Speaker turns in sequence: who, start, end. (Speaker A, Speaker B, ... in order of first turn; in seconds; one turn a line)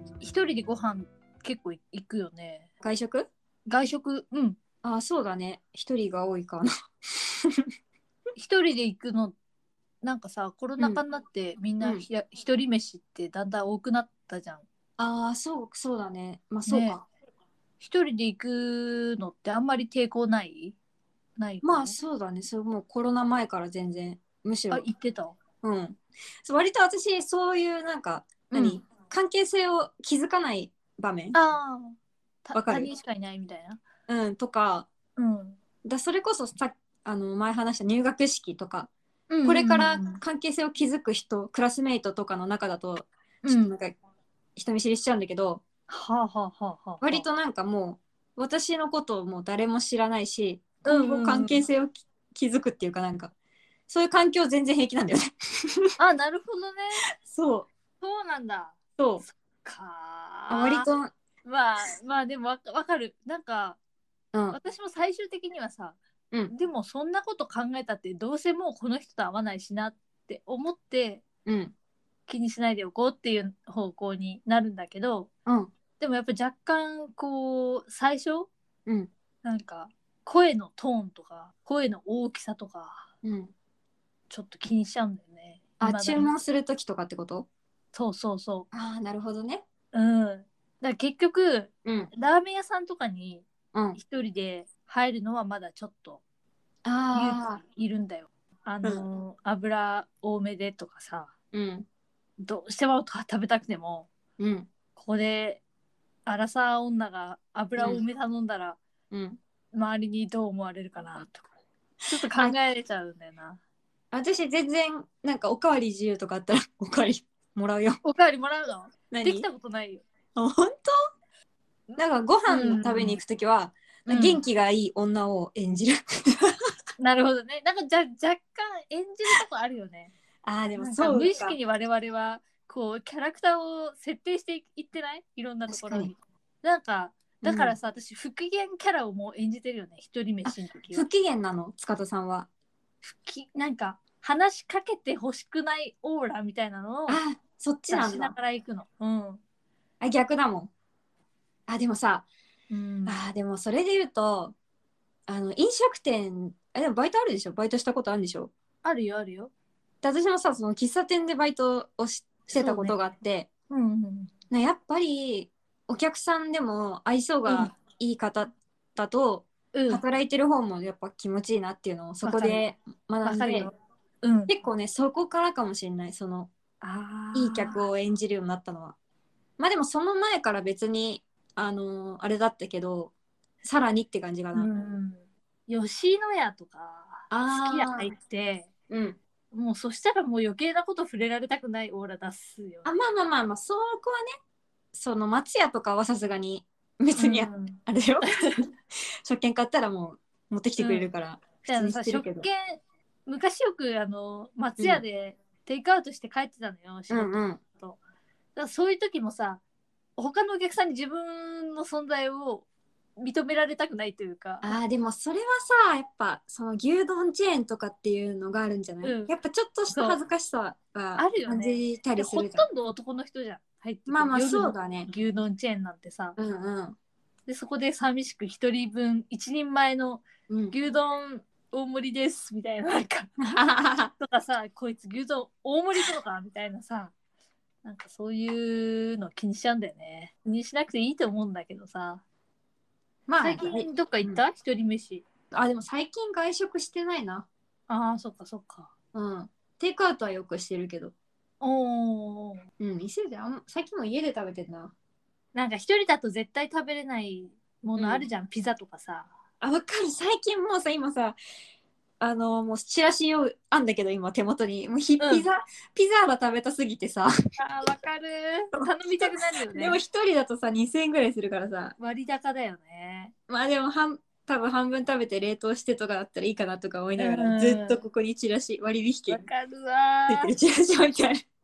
Speaker A: 0.2-2.7
Speaker B: 2.8-3.3
Speaker A: 3.6-4.6
Speaker B: 4.8-7.6
Speaker A: 8.3-9.3
Speaker A: 10.0-14.6
Speaker B: 11.8-12.1
Speaker B: 15.0-17.0
Speaker A: 16.7-17.0
Speaker A: 17.8-20.8
Speaker A: 21.4-22.0
Speaker B: 21.6-24.9
Speaker A: 24.7-25.4
Speaker B: 25.6-31.4
Speaker A: 28.5-28.8
Speaker A: 31.3-33.8
Speaker B: 32.5-32.9
Speaker B: 34.1-34.9
Speaker A: 35.2-35.6
Speaker B: 35.8-38.9
Speaker A: 39.3-40.2
Speaker B: 39.4-44.0
Speaker A: 43.4-43.8
Speaker B: 44.5-45.6
Speaker A: 45.9-47.3
Speaker B: 47.0-53.3
Speaker A: 50.8-51.6
Speaker B: 53.9-55.9
Speaker A: 56.0-57.0
Speaker B: 57.2-57.7
Speaker A: 58.0-60.9
Speaker B: 59.0-59.2
Speaker B: 60.5-61.1
Speaker A: 61.4-63.8
Speaker A: 64.5-66.0
Speaker A: 66.5-71.2
Speaker B: 71.4-71.7
Speaker A: 72.3-75.3
Speaker B: 75.5-75.7
Speaker A: 76.0-78.5
Speaker A: 79.4-83.1
Speaker B: 83.2-83.5
Speaker A: 84.3-86.3
Speaker B: 85.8-87.5
Speaker A: 87.9-88.7
Speaker B: 88.7-89.6
Speaker A: 89.9-96.2
Speaker B: 91.8-92.1
Speaker B: 96.8-97.6
Speaker A: 97.1-101.3
Speaker B: 101.5-101.8
Speaker A: 102.4-104.1
Speaker B: 104.4-104.7
Speaker A: 105.0-105.6
Speaker A: 106.2-108.8
Speaker B: 109.1-109.4
Speaker A: 109.7-111.5
Speaker A: 112.1-113.6
Speaker B: 114.1-118.0
Speaker A: 118.0-120.0
Speaker B: 119.1-119.5
Speaker B: 120.3-120.9
Speaker B: 121.9-126.4
Speaker A: 122.5-123.2
Speaker A: 124.1-124.4
Speaker A: 127.0-130.1
Speaker B: 130.4-131.6
Speaker A: 130.8-141.1
Speaker B: 135.7-136.1
Speaker B: 137.4-137.8
Speaker B: 140.4-142.5
Speaker A: 143.0-147.2
Speaker B: 147.1-148.3
Speaker A: 147.9-149.4
Speaker B: 150.0-150.7
Speaker B: 151.7-152.3
Speaker A: 152.7-153.2
Speaker B: 153.1-154.6
Speaker B: 155.3-158.5
Speaker A: 158.8-159.5
Speaker B: 160.0-163.5
Speaker A: 162.5-163.0
Speaker A: 163.7-164.3
Speaker B: 164.5-173.7
Speaker A: 167.4-167.7
Speaker A: 169.7-170.0
Speaker A: 172.2-172.6
Speaker A: 173.2-174.5
Speaker B: 174.5-176.5
Speaker A: 176.8-177.8
Speaker B: 177.3-178.9
Speaker B: 179.6-184.7
Speaker A: 184.5-188.7
Speaker B: 187.3-188.1
Speaker B: 188.9-189.2
Speaker A: 189.5-192.9
Speaker B: 192.8-194.3
Speaker B: 194.9-198.3
Speaker A: 197.2-198.5
Speaker B: 199.2-202.5
Speaker A: 200.8-201.1
Speaker A: 201.6-208.0
Speaker B: 207.1-207.6
Speaker A: 208.5-209.6
Speaker A: 210.2-212.7
Speaker A: 213.2-214.8
Speaker B: 214.6-222.7
Speaker A: 219.0-219.3
Speaker A: 219.9-220.2
Speaker A: 221.2-226.4
Speaker B: 224.1-225.1
Speaker B: 226.4-227.0
Speaker A: 227.5-233.3
Speaker B: 230.5-230.8
Speaker B: 233.4-234.1
Speaker A: 234.2-237.1
Speaker A: 237.8-242.2
Speaker B: 243.3-244.4
Speaker A: 243.4-245.2
Speaker B: 245.5-247.5
Speaker A: 247.9-248.9
Speaker B: 249.1-251.1
Speaker A: 251.6-252.6
Speaker B: 252.8-254.9
Speaker A: 255.5-259.3
Speaker B: 257.9-258.2
Speaker B: 259.6-261.4
Speaker B: 262.2-267.3
Speaker A: 265.2-265.5
Speaker A: 267.6-270.0
Speaker B: 268.7-271.9
Speaker A: 272.0-273.3
Speaker B: 273.5-279.5
Speaker A: 277.2-278.0
Speaker A: 279.3-280.5
Speaker B: 280.3-281.4